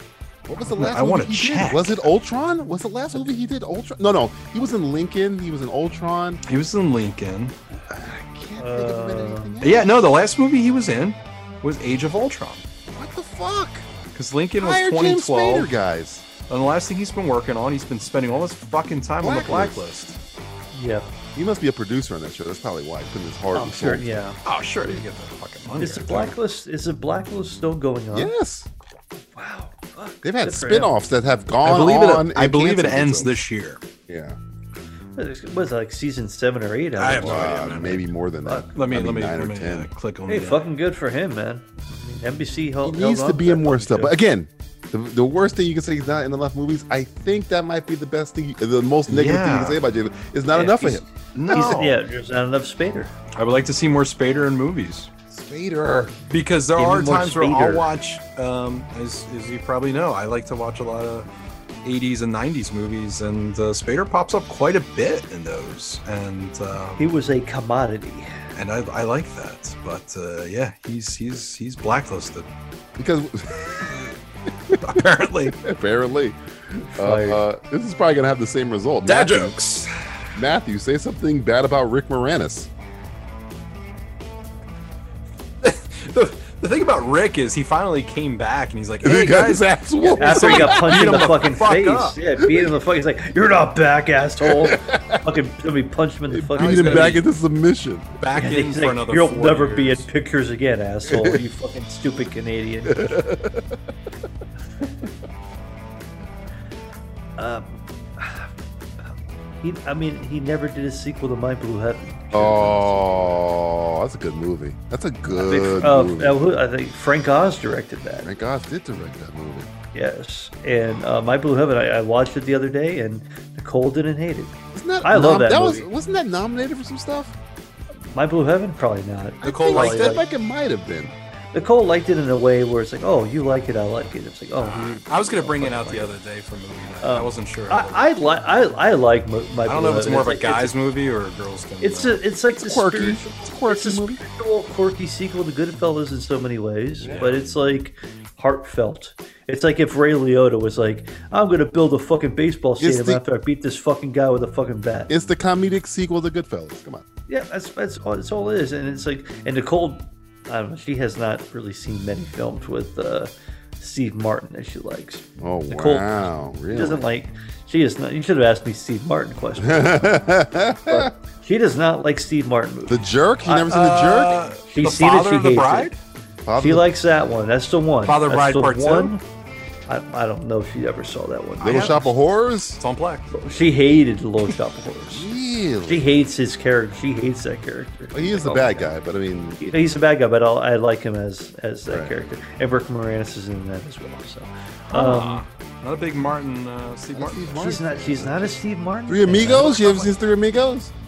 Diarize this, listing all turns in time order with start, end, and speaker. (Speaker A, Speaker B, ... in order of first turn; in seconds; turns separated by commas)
Speaker A: 0.5-6.4, Speaker B: 0.7-2.0, Speaker B: 6.5-7.5, Speaker A: 7.9-10.1, Speaker C: 8.6-9.5, Speaker B: 9.6-12.6, Speaker A: 12.9-13.9, Speaker B: 14.1-15.7, Speaker A: 14.6-16.2, Speaker B: 16.5-20.2, Speaker A: 19.2-19.8, Speaker C: 20.7-21.1, Speaker A: 21.3-24.0, Speaker C: 23.5-24.4, Speaker B: 24.4-26.4, Speaker C: 25.8-28.3, Speaker A: 28.1-28.7, Speaker C: 29.3-30.9, Speaker A: 30.2-33.4, Speaker B: 31.6-33.8, Speaker A: 34.1-34.4, Speaker C: 35.1-37.7, Speaker B: 37.0-38.0, Speaker A: 37.2-39.9, Speaker B: 38.7-40.7, Speaker C: 40.3-44.1, Speaker A: 42.8-51.8, Speaker B: 49.1-49.8, Speaker C: 50.5-53.1, Speaker B: 51.3-52.0, Speaker B: 53.3-55.1, Speaker A: 55.3-56.1, Speaker B: 56.3-61.3, Speaker C: 56.8-57.9, Speaker B: 61.8-67.0, Speaker C: 67.0-68.3, Speaker B: 68.5-72.5, Speaker A: 73.0-74.1, Speaker B: 74.8-75.6, Speaker A: 75.5-76.4, Speaker C: 76.9-77.4, Speaker A: 76.9-79.5, Speaker B: 79.0-79.9, Speaker A: 80.3-82.7, Speaker B: 85.6-92.2, Speaker A: 89.0-91.3, Speaker C: 90.2-97.2, Speaker A: 92.4-92.7, Speaker A: 94.4-95.2, Speaker A: 96.3-98.1, Speaker B: 96.6-97.2, Speaker B: 98.2-100.1, Speaker C: 98.4-103.2, Speaker A: 101.1-101.4, Speaker A: 102.9-103.7, Speaker C: 107.4-108.5, Speaker C: 109.6-113.3, Speaker A: 112.3-116.4, Speaker C: 115.3-118.3, Speaker A: 118.2-119.7, Speaker C: 119.9-125.8, Speaker A: 124.7-127.3, Speaker C: 128.1-130.2, Speaker B: 129.4-130.2, Speaker A: 129.4-131.1, Speaker C: 131.5-136.1, Speaker B: 134.6-138.1, Speaker C: 137.0-140.7, Speaker B: 139.7-142.2, Speaker C: 141.8-155.1, Speaker A: 142.5-144.2, Speaker A: 147.0-147.3, Speaker B: 147.1-147.4, Speaker A: 152.8-153.2, Speaker A: 155.1-157.0, Speaker C: 157.3-170.2, Speaker A: 165.4-167.0, Speaker A: 169.6-171.1, Speaker C: 170.9-173.8, Speaker A: 172.8-174.4, Speaker B: 173.7-176.0, Speaker C: 174.7-175.9, Speaker A: 176.4-176.8, Speaker C: 176.6-179.2, Speaker B: 178.1-179.2, Speaker C: 179.9-182.1, Speaker A: 181.6-182.8, Speaker B: 181.6-182.1, Speaker B: 182.8-183.3, Speaker C: 183.3-185.3, Speaker A: 185.1-186.1, Speaker C: 185.8-188.9, Speaker A: 188.1-189.6, Speaker C: 189.6-195.4, Speaker A: 191.9-192.2, Speaker B: 194.9-197.6, Speaker A: 197.1-198.5, Speaker C: 197.6-199.7, Speaker A: 199.1-200.9, Speaker B: 199.6-200.1